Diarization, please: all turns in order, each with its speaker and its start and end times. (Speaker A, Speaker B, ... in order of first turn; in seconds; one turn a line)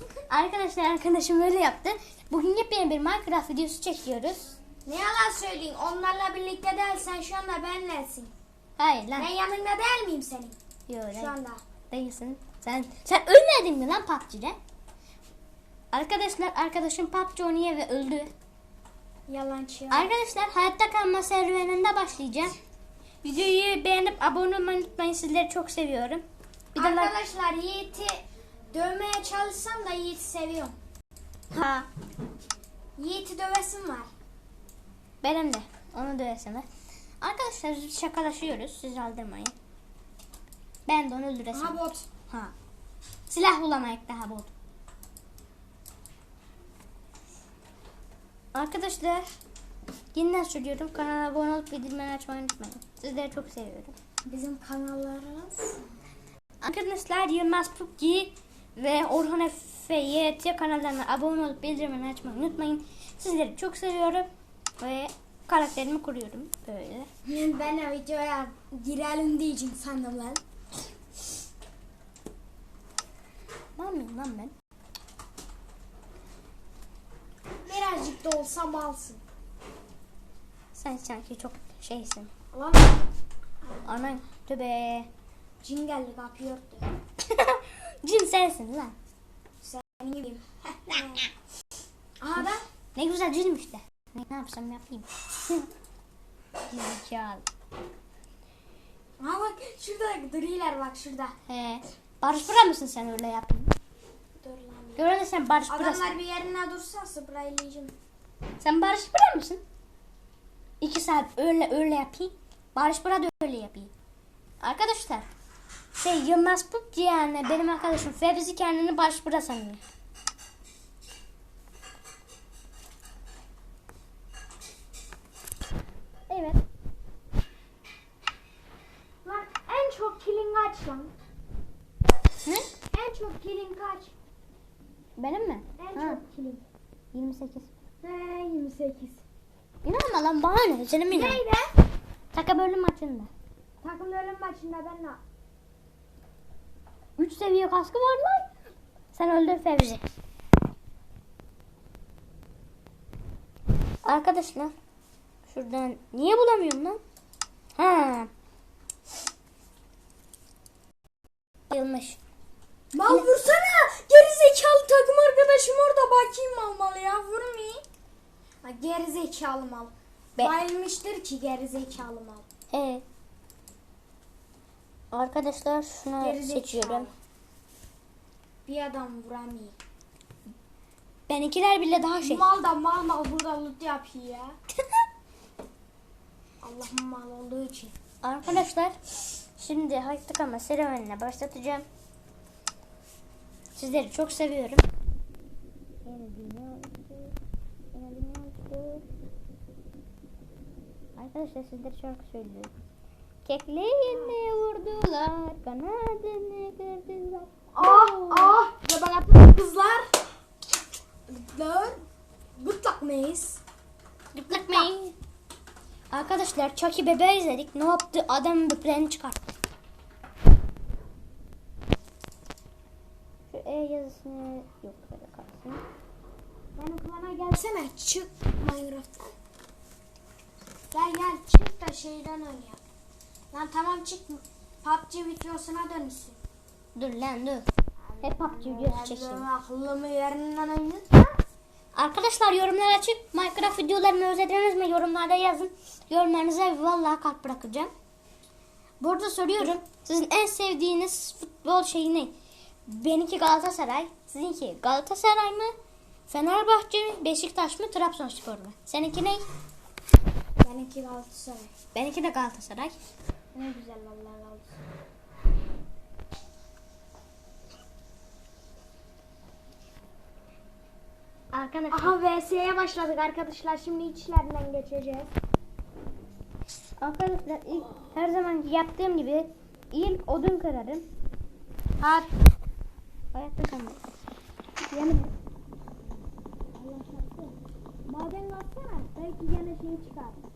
Speaker A: 0.3-4.5
Speaker B: 4.8-8.3
Speaker A: 8.8-9.3
Speaker B: 9.2-10.6
Speaker A: 10.9-11.3
Speaker B: 11.2-11.6
Speaker A: 11.9-14.6
Speaker A: 15.9-18.3
Speaker B: 19.3-20.1
Speaker A: 19.9-22.6
Speaker A: 23.2-26.2
Speaker A: 26.8-27.1
Speaker B: 26.8-30.8
Speaker A: 31.5-31.9
Speaker B: 33.0-34.1
Speaker A: 35.2-36.7
Speaker A: 37.2-39.5
Speaker A: 40.9-41.8
Speaker B: 41.5-42.1
Speaker A: 43.3-44.5
Speaker A: 48.5-49.3
Speaker A: 50.1-53.9
Speaker B: 54.3-55.8
Speaker A: 56.6-64.3
Speaker A: 64.8-67.1
Speaker B: 67.2-70.4
Speaker A: 73.8-74.5
Speaker B: 77.7-79.2
Speaker A: 80.7-82.3
Speaker B: 82.5-83.0
Speaker B: 83.6-84.1
Speaker A: 83.8-85.1
Speaker B: 85.6-87.0
Speaker A: 87.3-89.0
Speaker B: 89.6-91.2
Speaker A: 90.9-91.2
Speaker B: 92.2-92.6
Speaker A: 93.0-95.7
Speaker A: 96.7-97.4
Speaker B: 99.2-101.3
Speaker A: 101.5-103.7
Speaker B: 104.4-105.1
Speaker A: 105.0-106.2
Speaker B: 105.7-107.9
Speaker A: 108.6-109.6
Speaker A: 110.8-113.9
Speaker A: 114.6-115.3
Speaker A: 116.0-119.8
Speaker A: 126.3-126.6
Speaker B: 129.2-131.1
Speaker B: 132.9-134.1
Speaker A: 135.2-136.2
Speaker B: 135.8-136.7
Speaker A: 137.1-137.7
Speaker B: 138.0-139.2
Speaker A: 139.8-141.4
Speaker B: 141.1-141.7
Speaker A: 142.3-143.3
Speaker B: 143.8-145.2
Speaker A: 147.2-148.5
Speaker A: 149.1-150.0
Speaker A: 154.1-154.7
Speaker A: 155.5-157.0
Speaker A: 157.8-158.3
Speaker A: 161.7-162.2
Speaker B: 162.9-167.8
Speaker B: 168.6-172.4
Speaker A: 172.7-173.0
Speaker A: 175.1-177.1
Speaker B: 176.2-177.1
Speaker B: 178.7-179.8
Speaker A: 181.3-182.5
Speaker B: 182.2-184.6
Speaker B: 186.6-187.9
Speaker A: 188.2-188.9
Speaker A: 189.6-191.9
Speaker A: 193.8-194.8
Speaker A: 196.1-197.4
Speaker A: 197.9-199.1
Speaker A: 201.2-202.7
Speaker A: 203.4-208.6
Speaker B: 204.1-204.4
Speaker B: 207.8-210.1
Speaker B: 211.3-212.0
Speaker B: 212.6-213.6
Speaker A: 214.3-215.2
Speaker B: 214.6-214.9
Speaker A: 216.1-219.4
Speaker A: 223.5-225.8
Speaker B: 226.8-229.3
Speaker B: 230.9-232.8
Speaker B: 233.5-236.4
Speaker A: 236.9-237.7
Speaker B: 238.1-241.4
Speaker A: 238.2-239.5
Speaker A: 241.9-247.9
Speaker A: 249.0-252.3
Speaker A: 252.9-255.7
Speaker A: 256.3-259.4
Speaker B: 260.6-261.7
Speaker A: 261.9-263.0
Speaker B: 263.5-264.8
Speaker A: 271.5-272.1
Speaker B: 271.9-275.3
Speaker A: 277.0-281.1
Speaker B: 282.0-282.3
Speaker A: 283.3-284.0
Speaker A: 284.9-285.3
Speaker B: 286.8-287.6
Speaker B: 288.1-290.4